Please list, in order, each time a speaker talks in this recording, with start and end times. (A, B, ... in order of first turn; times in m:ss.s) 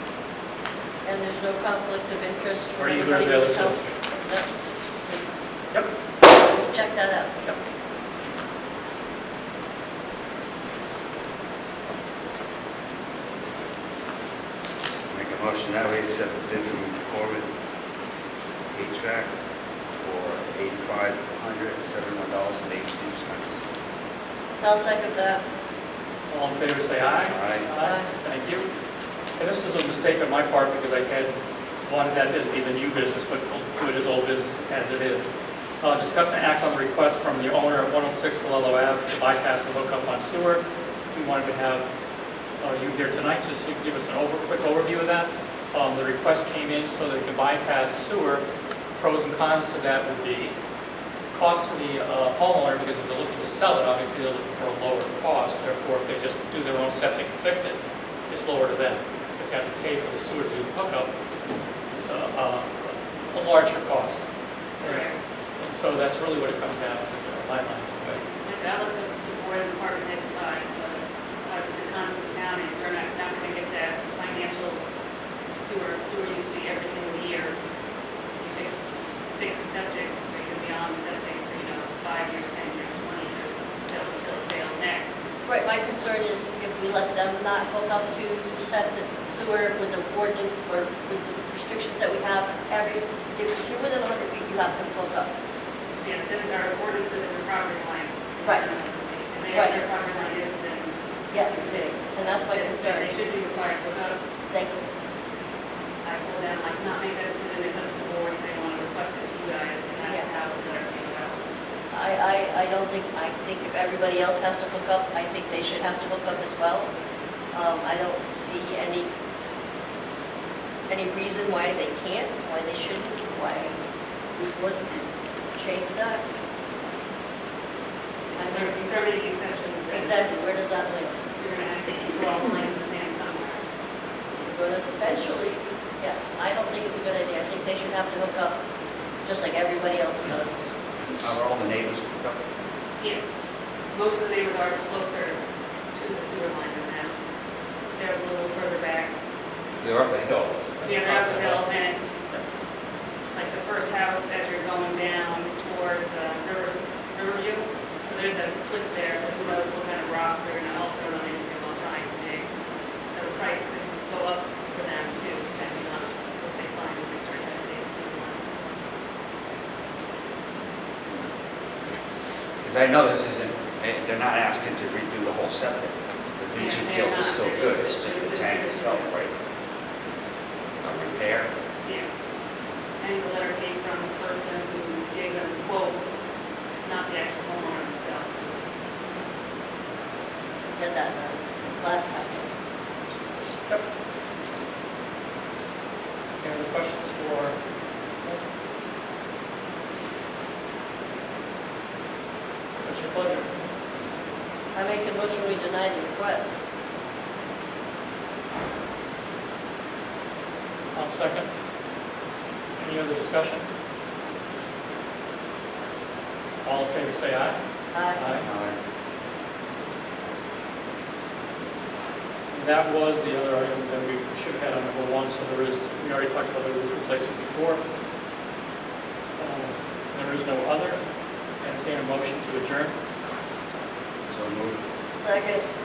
0:01.0-0:04.5 A
0:02.8-0:03.9 B
0:06.3-0:07.3 A
0:15.1-0:17.5 C
0:18.7-0:19.3 C
0:20.0-0:23.6 C
0:24.6-0:25.4 A
0:26.3-0:28.7 B
0:27.3-0:27.7 C
0:27.8-0:28.1 A
0:29.4-0:41.8 B
0:42.6-0:48.4 B
0:49.0-0:50.5 B
0:51.3-1:01.1 B
1:01.9-1:04.2 B
1:04.8-1:05.2 D
1:05.6-1:08.2 B
1:08.4-1:14.8 D
1:15.6-1:17.6 D
1:18.4-1:18.8 D
1:19.4-1:25.1 D
1:25.5-1:35.3 A
1:36.0-1:44.2 D
1:39.5-1:39.8 A
1:41.3-1:43.1 A
1:46.0-1:51.4 D
1:51.9-1:56.9 A
1:57.5-1:59.1 A
2:00.9-2:03.8 A
2:04.4-2:05.0 A
2:05.5-2:06.2 A
2:08.3-2:10.3 D
2:08.4-2:08.8 A
2:09.9-2:11.2 A
2:11.4-2:13.6 D
2:14.4-2:18.6 A
2:19.2-2:20.7 A
2:21.2-2:22.4 C
2:23.0-2:25.4 D
2:25.9-2:27.1 D
2:28.0-2:29.1 D
2:29.8-2:30.9 C
2:30.8-2:31.7 B
2:30.8-2:32.2 D
2:33.3-2:42.4 D
2:43.1-2:48.4 D
2:52.6-2:59.4 C
2:56.5-2:59.4 D
3:00.8-3:01.5 C
3:01.8-3:02.1 D
3:03.0-3:06.0 D
3:06.8-3:08.5 D
3:10.8-3:12.5 A
3:16.4-3:17.6 B
3:18.1-3:18.4 B
3:22.8-3:23.5 B
3:24.7-3:26.6 A
3:30.9-3:31.5 B
3:32.8-3:33.6 B
3:36.6-3:37.6 B
3:37.9-3:38.2 A
3:38.1-3:38.5 B
3:38.4-3:38.8 C
3:42.5-3:47.8 B
3:49.4-3:51.0 B
3:51.6-3:52.9 B
3:54.3-3:54.8 C
3:55.1-3:55.7 A